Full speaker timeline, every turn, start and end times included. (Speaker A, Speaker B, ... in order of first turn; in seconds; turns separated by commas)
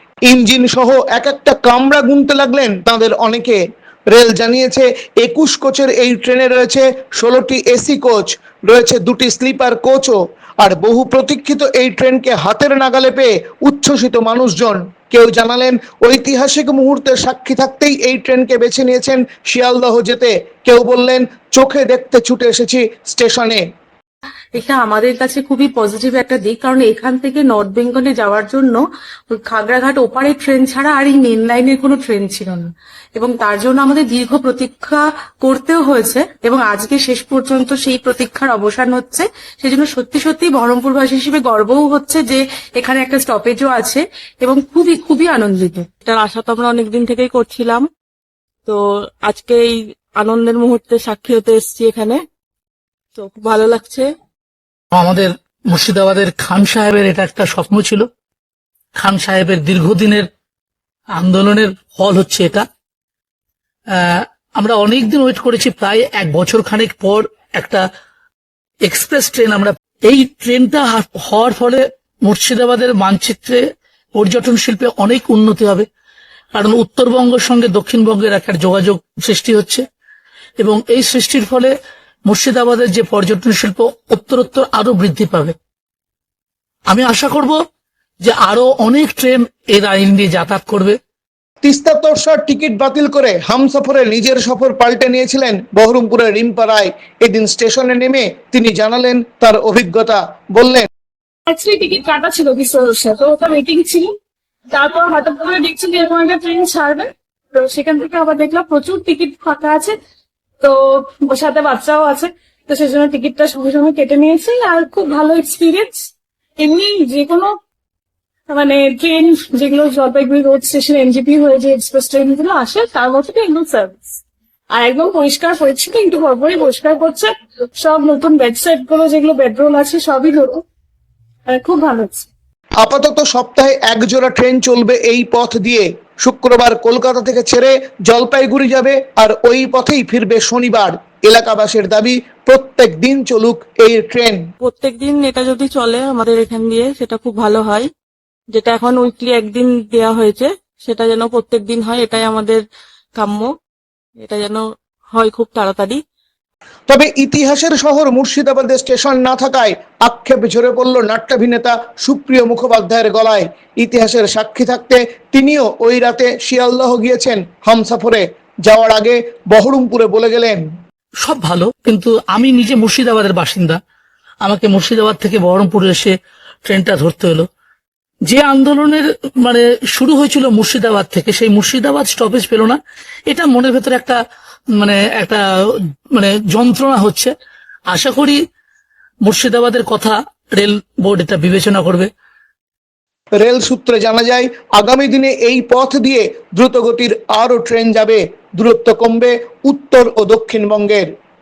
Speaker A: 0.3-23.6, Speaker B: 24.5-45.9, Speaker C: 46.0-47.9, Speaker C: 48.6-52.2, Speaker C: 53.1-54.1, Speaker D: 54.9-58.0, Speaker D: 59.0-60.3, Speaker D: 61.1-62.6, Speaker D: 63.9-67.8, Speaker D: 68.8-73.6, Speaker D: 74.2-75.9, Speaker D: 76.5-79.8, Speaker D: 80.6-81.7, Speaker D: 82.3-85.5, Speaker D: 86.9-87.5, Speaker D: 88.2-91.0, Speaker A: 91.6-100.9, Speaker E: 101.5-104.1, Speaker E: 104.7-109.9, Speaker E: 110.6-116.0, Speaker E: 116.6-117.5, Speaker E: 118.5-124.2, Speaker E: 124.7-130.6, Speaker E: 131.5-132.3, Speaker A: 132.8-144.4, Speaker C: 144.6-147.9, Speaker C: 148.5-152.6, Speaker C: 153.1-153.5, Speaker C: 154.2-156.0, Speaker A: 156.9-170.6, Speaker D: 171.2-173.8, Speaker D: 174.4-176.1, Speaker D: 176.7-177.5, Speaker D: 178.3-184.2, Speaker D: 184.7-185.4, Speaker D: 186.1-187.3, Speaker D: 187.9-188.4, Speaker D: 189.2-192.1, Speaker A: 193.4-201.1